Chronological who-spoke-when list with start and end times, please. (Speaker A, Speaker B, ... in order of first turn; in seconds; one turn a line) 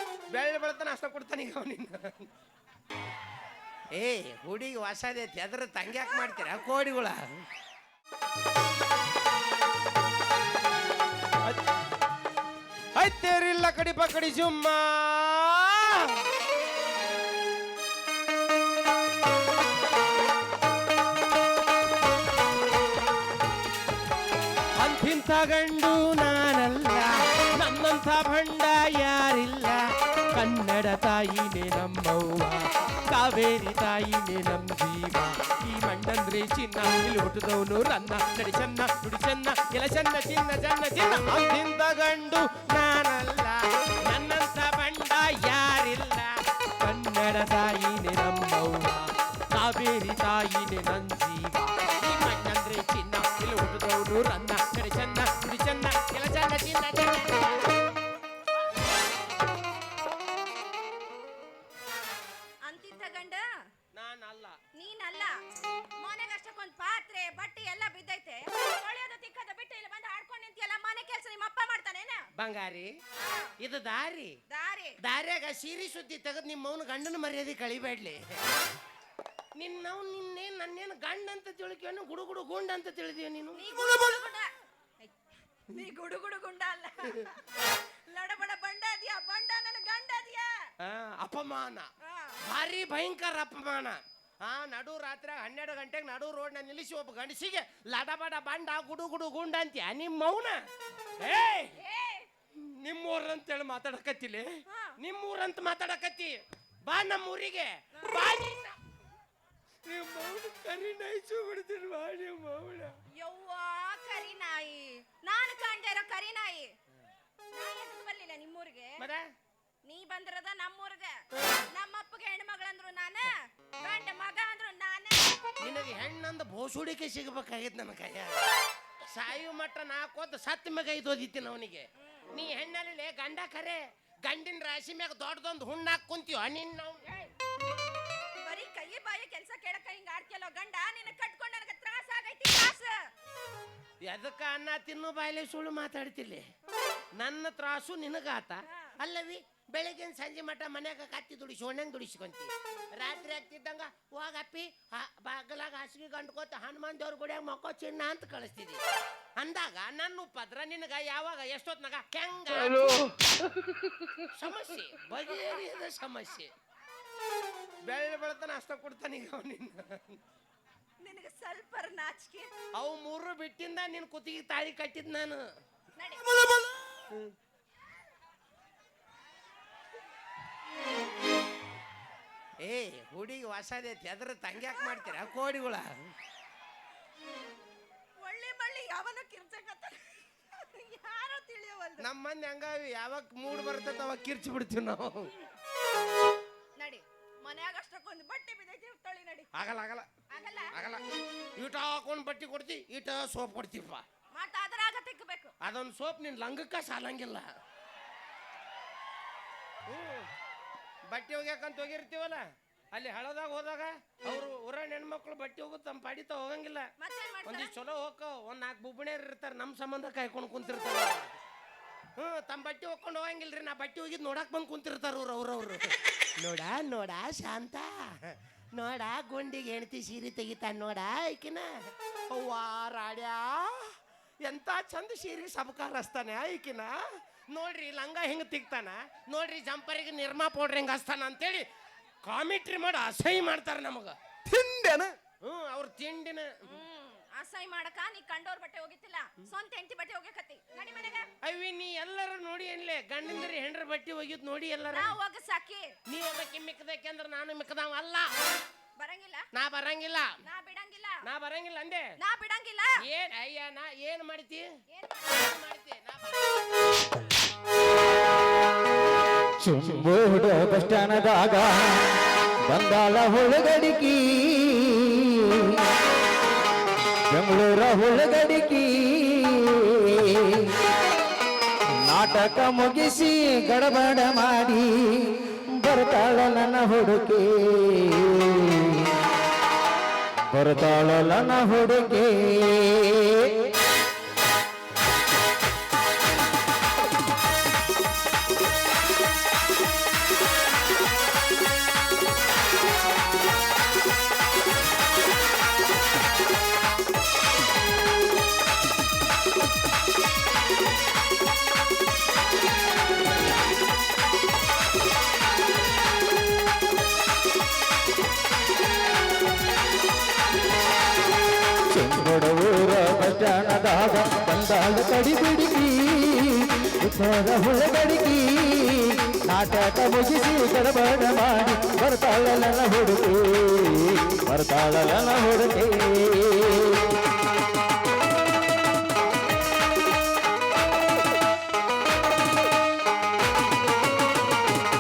Speaker A: 0.3-2.3
Speaker A: 4.0-7.2
Speaker A: 12.9-16.1
Speaker A: 24.8-29.8
Speaker A: 30.3-57.7
Speaker B: 62.6-63.4
Speaker A: 63.9-64.6
Speaker B: 64.7-65.4
Speaker B: 66.0-72.2
Speaker A: 72.3-72.9
Speaker B: 73.2-73.5
Speaker A: 73.6-74.4
Speaker B: 74.5-75.0
Speaker A: 75.0-78.2
Speaker A: 79.6-83.6
Speaker B: 83.6-84.5
Speaker B: 85.7-90.6
Speaker A: 90.8-91.9
Speaker B: 92.0-92.4
Speaker A: 92.4-100.6
Speaker A: 101.2-101.8
Speaker B: 101.8-102.3
Speaker A: 102.5-106.3
Speaker B: 104.7-105.0
Speaker A: 106.8-108.8
Speaker B: 108.0-108.2
Speaker A: 109.8-112.9
Speaker B: 113.2-116.7
Speaker B: 117.5-119.0
Speaker A: 119.0-119.2
Speaker B: 119.8-125.4
Speaker A: 125.6-128.5
Speaker A: 129.1-137.3
Speaker B: 138.4-142.9
Speaker A: 144.0-146.4
Speaker A: 147.2-158.8
Speaker B: 148.7-148.9
Speaker A: 159.4-163.1
Speaker A: 164.2-166.5
Speaker A: 167.8-170.2
Speaker B: 171.0-172.5
Speaker A: 172.8-175.4
Speaker B: 175.9-176.2
Speaker A: 182.6-185.9
Speaker B: 188.2-192.1
Speaker A: 192.0-195.3
Speaker B: 196.8-199.5
Speaker A: 199.5-200.1
Speaker B: 200.3-200.8
Speaker A: 200.7-201.0
Speaker A: 201.6-204.0
Speaker B: 204.3-205.5
Speaker A: 205.6-207.5
Speaker A: 209.9-210.3
Speaker A: 211.1-212.4
Speaker A: 212.9-216.9
Speaker B: 217.0-217.7
Speaker A: 217.4-221.3
Speaker A: 222.2-225.9
Speaker A: 226.4-231.7
Speaker A: 232.3-233.9
Speaker A: 234.4-236.9
Speaker A: 237.5-241.6
Speaker A: 242.2-244.2
Speaker C: 244.5-245.0
Speaker A: 245.4-246.5
Speaker B: 246.7-251.3
Speaker A: 251.4-255.1
Speaker B: 254.9-255.9
Speaker A: 256.1-258.3
Speaker B: 259.0-259.4
Speaker A: 259.5-260.3
Speaker B: 260.4-261.2
Speaker A: 261.2-262.0
Speaker B: 262.2-263.0
Speaker A: 263.0-264.7
Speaker B: 264.9-265.4
Speaker A: 265.3-266.6
Speaker C: 269.6-275.9
Speaker C: 277.3-280.7
Speaker C: 281.9-289.2
Speaker C: 290.5-293.7
Speaker C: 321.9-337.2